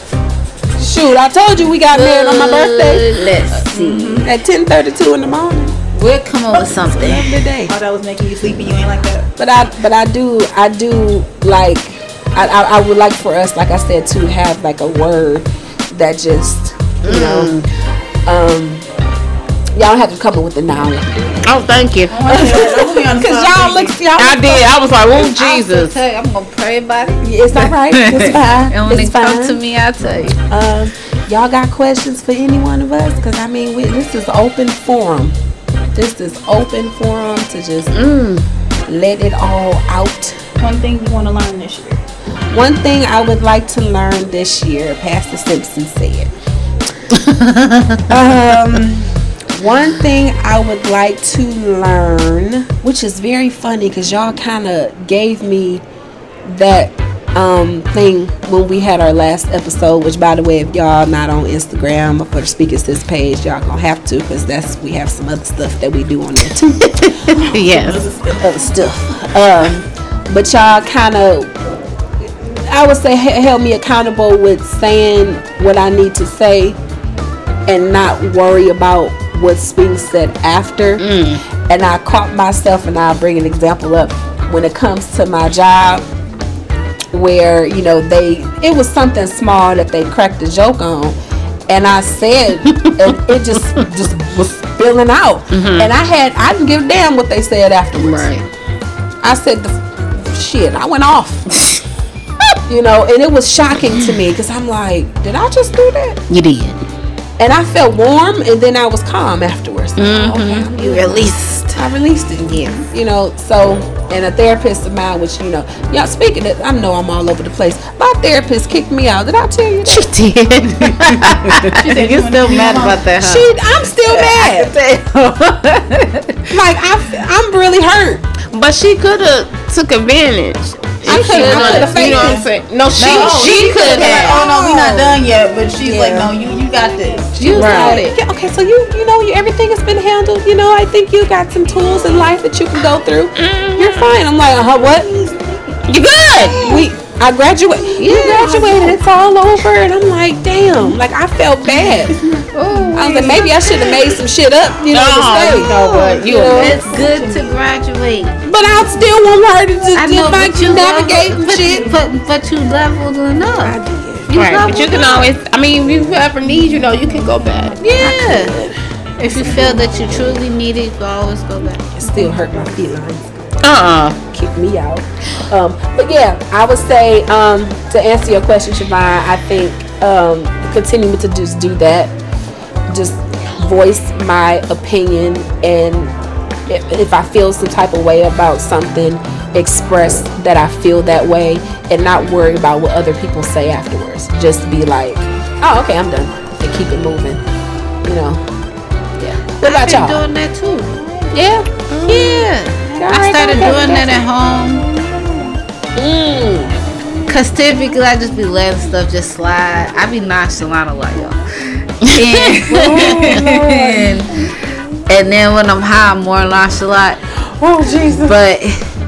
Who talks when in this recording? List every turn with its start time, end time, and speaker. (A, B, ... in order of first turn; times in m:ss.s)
0:00.8-0:05.7 A
0:01.9-0:03.8 B
0:03.7-0:04.3 C
0:05.9-0:07.3 B
0:06.5-0:09.3 C
0:07.0-0:07.7 A
0:09.4-0:17.6 A
0:17.0-0:17.6 D
0:18.2-0:18.9 A
0:19.7-0:21.6 A
0:21.4-0:22.2 D
0:22.1-0:24.0 C
0:22.3-0:24.9 A
0:24.2-0:26.0 D
0:25.1-0:30.4 B
0:27.2-0:29.6 A
0:30.3-0:35.4 A
0:35.9-0:37.9 A
0:37.9-0:38.4 D
0:38.9-0:40.4 A
0:40.6-0:42.0 C
0:42.5-0:46.3 A
0:47.2-0:48.0 D
0:48.1-0:55.8 A
0:56.4-1:07.1 A
1:06.9-1:08.1 D
1:07.3-1:08.6 C
1:08.4-1:11.5 A
1:12.7-1:16.8 A
1:17.7-1:21.0 A
1:21.0-1:21.4 D
1:21.7-1:26.1 A
1:27.1-1:31.2 A
1:31.7-1:38.3 A
1:35.5-1:35.9 D
1:37.9-1:38.4 D
1:39.2-1:41.6 A
1:42.7-1:46.2 A
1:46.3-1:46.8 D
1:47.4-2:00.1 A
1:50.0-1:50.7 D
1:50.8-1:51.8 B
1:59.8-2:01.8 D
2:01.7-2:06.4 B
2:01.7-2:03.0 C
2:02.6-2:04.7 A
2:06.5-2:08.2 A
2:08.5-2:14.4 D
2:11.0-2:12.5 A
2:11.1-2:12.1 B
2:11.5-2:12.4 C
2:13.0-2:17.6 C
2:13.0-2:15.2 A
2:15.8-2:16.3 A
2:17.4-2:18.2 B
2:17.4-2:25.6 A
2:17.5-2:18.0 D
2:23.4-2:24.2 D
2:25.9-2:26.8 D
2:26.5-2:32.2 A
2:28.0-2:29.0 B
2:31.7-2:34.1 C
2:32.5-2:33.4 B
2:32.9-2:36.8 A
2:34.9-2:36.8 D
2:35.4-2:37.6 C
2:36.5-2:38.3 B
2:38.4-2:42.0 A
2:39.9-2:45.3 B
2:43.5-2:44.8 A
2:44.3-2:47.8 D
2:47.8-2:48.8 A
2:47.8-2:48.6 B
2:49.2-2:51.9 B
2:49.3-2:50.0 A
2:51.9-2:53.3 A
2:53.6-2:54.2 D
2:54.3-3:02.1 A
3:02.9-3:06.1 A
3:06.7-3:17.4 A
3:18.0-3:18.4 A
3:19.2-3:21.0 B
3:19.6-3:20.2 A
3:21.3-3:22.3 A
3:21.9-3:22.4 D
3:22.0-3:24.9 B
3:22.9-3:24.3 A
3:25.9-3:26.7 A
3:27.3-3:31.4 B
3:32.0-3:34.5 B
3:32.0-3:33.4 D
3:32.7-3:34.3 A
3:35.1-3:37.2 B
3:37.5-3:38.4 A
3:38.1-3:38.8 B